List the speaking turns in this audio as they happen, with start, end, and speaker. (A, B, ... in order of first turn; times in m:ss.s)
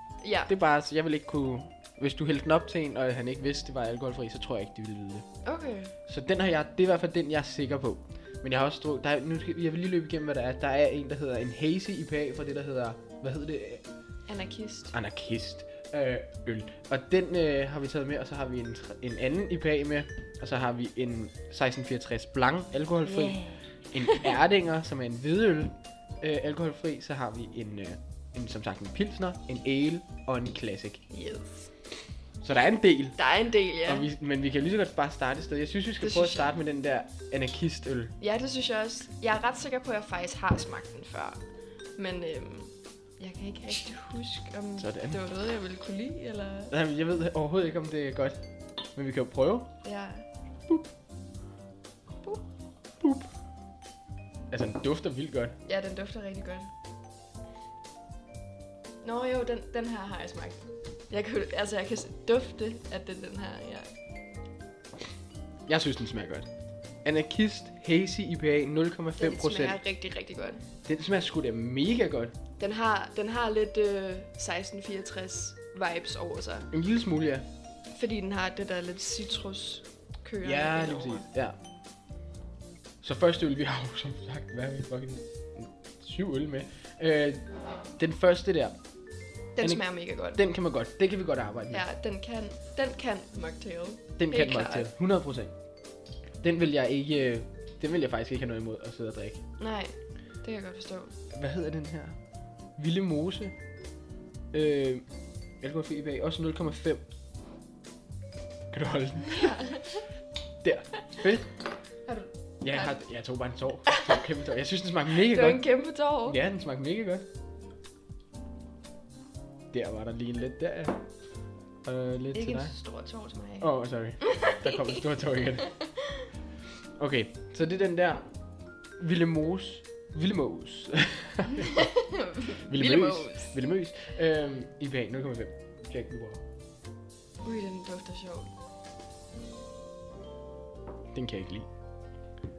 0:00.2-0:00.5 A
0:00.5-0:05.2 B
0:05.4-0:05.9 A
0:06.1-0:13.8 B
0:14.3-0:14.9 A
0:14.9-0:23.4 B
0:23.0-0:24.3 A
0:23.9-0:31.0 B
0:31.1-0:31.7 A
0:32.4-0:33.2 B
0:33.2-0:34.1 A
0:33.8-0:38.1 B
0:36.0-0:36.5 A
0:38.2-0:41.4 A
0:42.0-0:46.7 A
0:44.8-0:45.2 B
0:46.7-0:48.4 B
0:48.9-0:49.7 B
0:49.8-0:50.2 A
0:53.0-0:53.3 B
0:54.5-0:55.5 B
0:55.6-0:56.7 A
0:59.0-1:03.9 A
1:05.7-1:06.5 B
1:07.0-1:09.8 B
1:09.2-1:10.6 A
1:10.8-1:12.3 B
1:12.6-1:16.7 A
1:16.7-1:17.4 B
1:17.9-1:21.2 A
1:20.4-1:21.6 B
1:23.0-1:27.4 B
1:28.0-1:28.8 B
1:29.6-1:30.4 A
1:29.6-1:31.8 B
1:31.7-1:34.9 A
1:34.2-1:35.5 B
1:36.4-1:39.4 B
1:39.6-1:41.1 A
1:41.3-1:42.2 B
1:42.8-1:43.5 B
1:44.5-1:45.0 B
1:45.6-1:47.0 B
1:48.7-1:49.5 B
1:49.3-1:50.0 A
1:50.6-1:51.5 B
1:52.0-1:53.0 A
1:52.6-1:55.7 B
1:55.2-1:56.4 A
1:56.2-1:57.2 B
1:59.7-2:01.0 B
2:01.8-2:02.7 B
2:02.3-2:05.0 A
2:03.6-2:05.7 B
2:05.6-2:06.3 A
2:07.0-2:08.2 B
2:09.0-2:11.9 B
2:11.6-2:13.5 A
2:12.6-2:16.4 B
2:17.4-2:18.5 A
2:21.1-2:21.7 B